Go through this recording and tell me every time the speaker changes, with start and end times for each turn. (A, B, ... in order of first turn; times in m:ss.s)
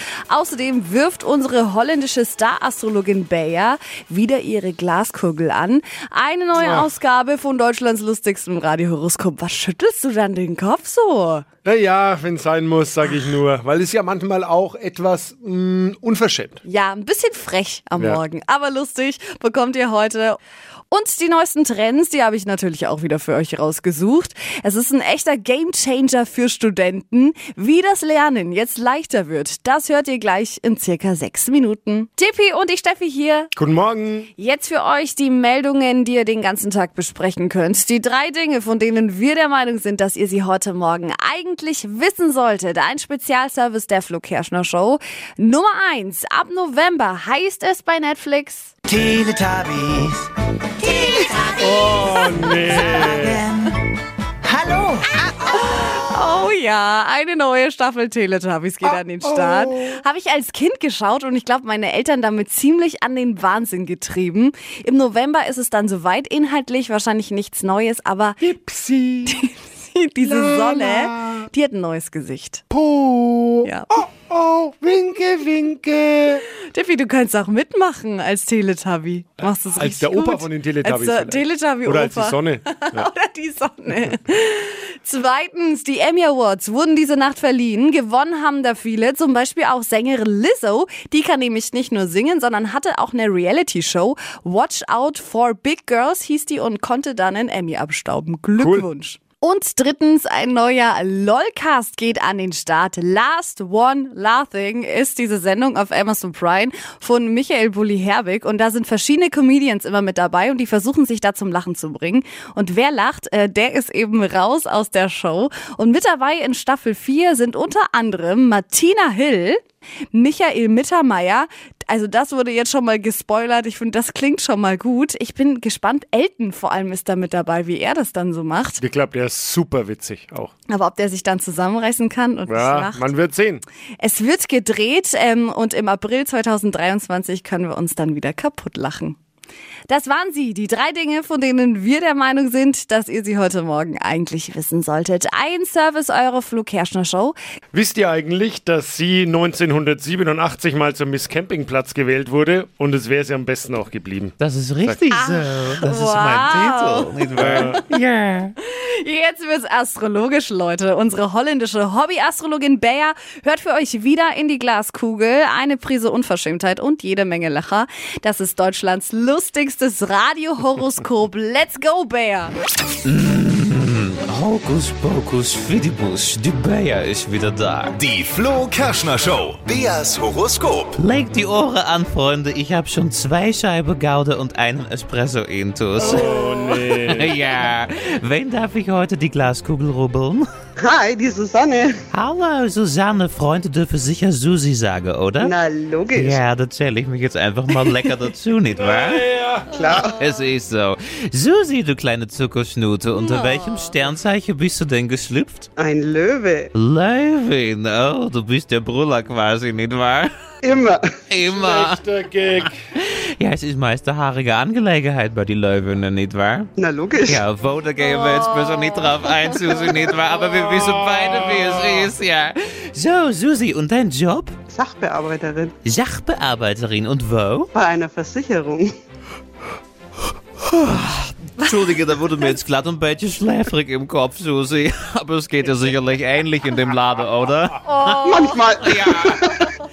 0:00.3-0:11.4 A
0:06.6-0:06.9 B
0:11.6-0:16.6 B
0:16.6-0:20.4 A
0:20.9-0:33.5 A
0:33.6-0:34.3 B
0:34.4-0:48.7 A
0:48.9-0:50.3 C
0:50.8-0:52.0 C
0:51.6-0:53.4 B
0:52.8-0:53.0 A
0:53.0-0:53.6 C
0:54.4-0:55.0 C
0:55.3-1:08.4 A
0:59.2-1:00.0 B
1:08.4-1:09.4 B
1:09.3-1:12.6 A
1:10.2-1:11.5 B
1:12.7-1:16.4 B
1:13.6-1:13.9 A
1:16.7-1:59.6 A
1:19.7-1:23.1 B
1:38.6-1:38.9 B
2:00.1-2:08.8 A
2:08.8-2:10.5 B
2:10.7-2:13.1 A
2:12.5-2:13.6 B
2:14.0-2:19.2 A
2:19.9-2:27.4 A
2:27.7-2:35.1 B
2:34.4-2:38.5 D
2:35.1-2:37.1 A
2:37.4-2:37.8 B
2:38.8-2:52.5 A
2:53.0-2:58.0 D
2:58.0-3:01.0 E
3:01.0-3:06.3 D
3:06.0-3:07.3 B
3:06.9-3:10.4 D
3:10.8-3:12.0 F
3:12.1-3:15.6 D
3:15.4-3:16.4 F
3:16.1-3:19.2 D
3:18.8-3:19.8 B
3:19.7-3:20.2 F
3:20.1-3:25.7 D
3:23.3-3:23.9 A
3:25.8-3:26.7 F
3:26.8-3:30.3 D
3:30.6-3:31.1 F
3:31.3-3:32.0 D
3:31.4-3:32.8 B
3:33.4-3:36.7 D
3:36.8-3:37.4 F
3:37.2-3:44.5 D
3:38.2-3:39.3 A
3:40.3-3:42.1 B
3:44.7-3:45.7 F
3:45.8-3:47.7 D
3:47.7-3:48.9 F
3:50.9-3:59.7 D
3:57.9-3:58.2 A
3:58.2-3:59.6 F